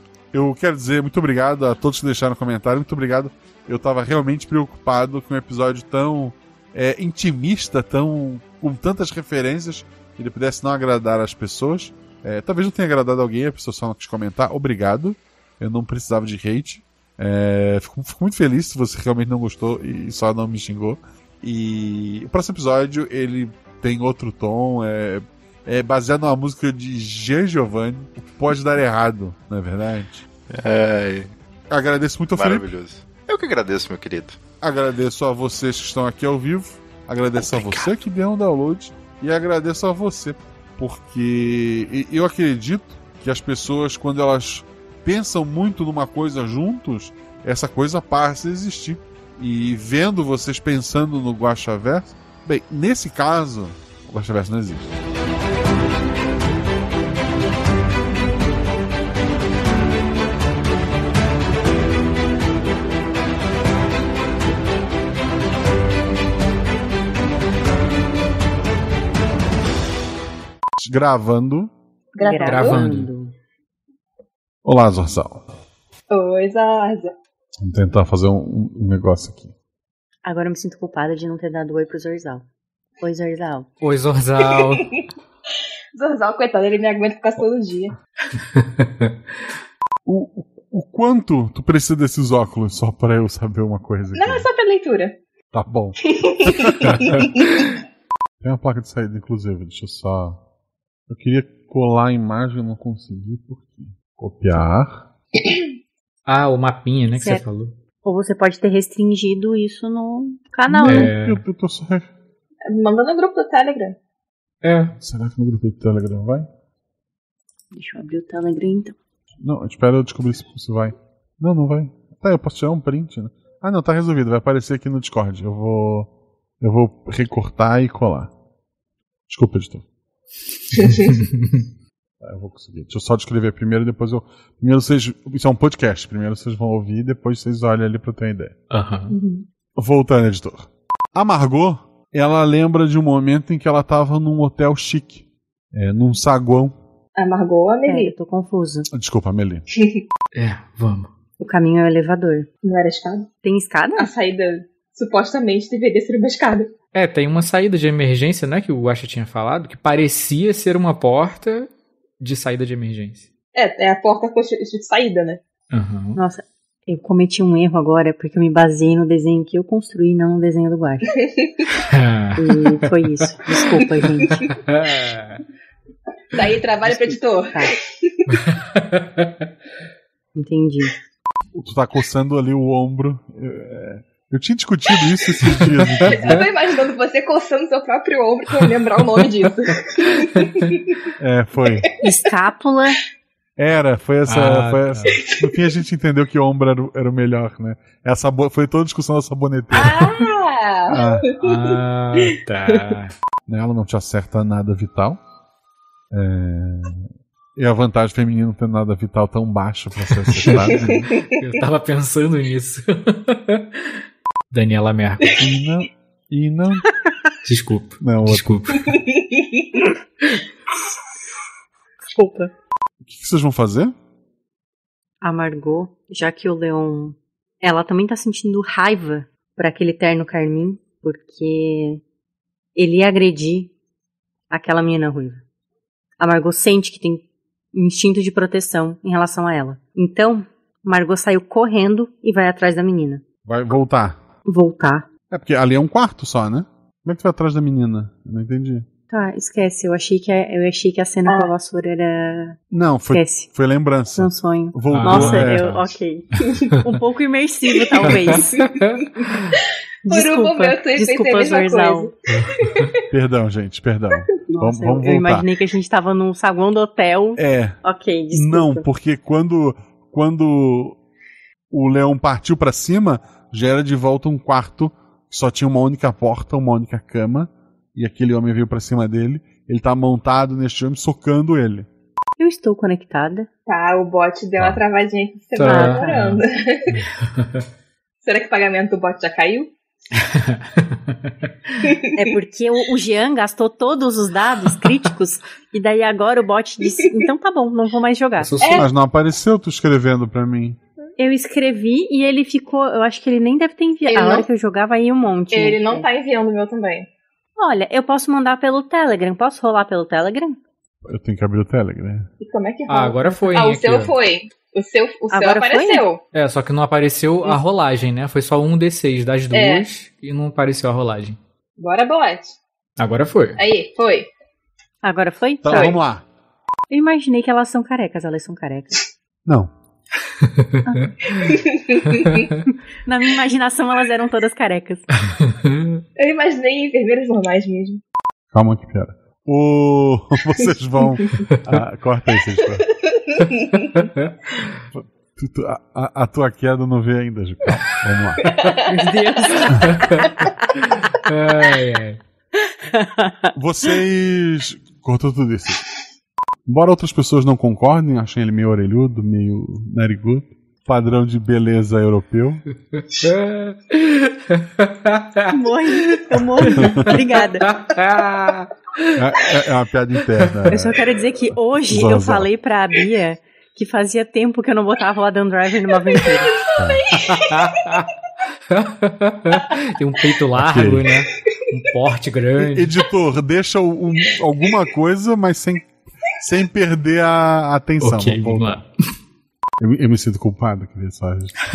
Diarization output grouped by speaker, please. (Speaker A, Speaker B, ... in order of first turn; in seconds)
Speaker A: 0.3-30.2, 31.7-32.7, 34.6-55.0, 70.8-71.7, 74.6-75.5, 77.6-79.5, 90.0-94.5, 95.5-97.2, 98.4-100.4, 101.1-105.1, 110.7-112.1, 115.0-116.5, 119.4-128.3, 129.3-129.8, 130.8-131.1, 132.2-138.6, 139.8-146.8, 148.9-149.6, 181.5-186.4, 191.2-191.9, 193.6-200.1, 200.9-201.3, 203.5-205.2, 206.1-211.1, 215.3-216.9, 218.0-218.6, 223.0-223.9, 243.4-244.2, 245.3-248.9, 252.7-255.9, 263.0-265.5, 267.4-267.8, 268.3-271.0, 271.7-281.9, 298.8-300.8, 311.0-312.3, 325.6-326.2, 329.4-329.7, 338.5-342.9, 344.9-348.8, 353.6-355.8, 356.6-362.6, 366.8-367.1, 369.1-371.0, 371.9-372.5, 376.8-377.0, 380.5-381.1, 382.6-385.9, 386.4-388.8, 389.8-391.5
Speaker B: 30.5-31.3, 32.3-34.4, 37.4-37.9
Speaker C: 72.2-72.9, 76.1-77.1, 86.0-87.9, 94.1-95.2, 96.1-97.6, 112.7-114.0, 130.8-131.1, 139.1-139.4, 147.2-148.1, 149.7-150.0, 152.6-153.3, 154.0-156.7, 163.5-165.4, 176.3-178.3, 186.0-190.5, 195.2-195.6, 199.7-201.7, 210.5-211.1, 218.9-219.8, 251.2-251.5, 260.1-262.8, 283.7-287.0, 288.2-289.7, 291.8-292.2, 304.1-304.5, 305.5-307.1, 312.4-316.2, 319.5-319.8, 321.8-322.5, 323.6-324.3, 331.4-332.4, 336.2-338.0, 340.6-341.3, 342.6-343.9, 348.5-349.7, 376.6-377.8
Speaker D: 72.2-73.3, 80.2-82.5, 83.0-83.7, 107.2-107.5, 108.0-111.1, 117.7-118.9, 147.8-148.9, 151.4-152.5, 153.4-154.1, 166.2-171.1, 172.4-174.4, 180.3-180.9, 192.0-193.0, 222.1-222.5, 225.2-232.0, 232.8-233.7, 234.5-235.4, 236.2-243.2, 244.4-245.1, 249.1-253.5, 254.1-258.5, 260.0-262.1, 264.5-268.9, 282.4-283.5, 285.6-286.3, 292.1-298.5, 301.2-306.1, 307.6-310.6, 315.3-316.1, 325.0-326.0, 326.9-329.0, 333.1-335.1, 353.2-353.5, 365.5-367.7, 370.7-376.6
Speaker E: 72.3-73.1, 83.8-84.9, 88.8-89.1, 97.0-97.4, 106.2-107.8, 110.8-111.4, 114.6-114.9, 138.7-139.2, 150.3-151.1, 156.9-163.3, 165.7-166.2, 171.9-172.9, 174.7-175.4, 178.5-179.3, 185.5-186.1, 190.4-190.7, 194.3-195.2, 201.4-203.1, 210.3-210.8, 211.3-214.0, 214.5-215.4, 217.4-219.0, 254.9-256.4, 258.0-259.6, 285.6-286.4, 290.2-291.8, 298.4-298.8, 312.9-314.2, 316.3-321.4, 323.0-323.6, 330.5-331.3, 335.3-336.0, 344.0-344.3, 349.1-352.2, 362.9-369.2, 377.3-378.1, 378.7-383.0, 388.0-388.9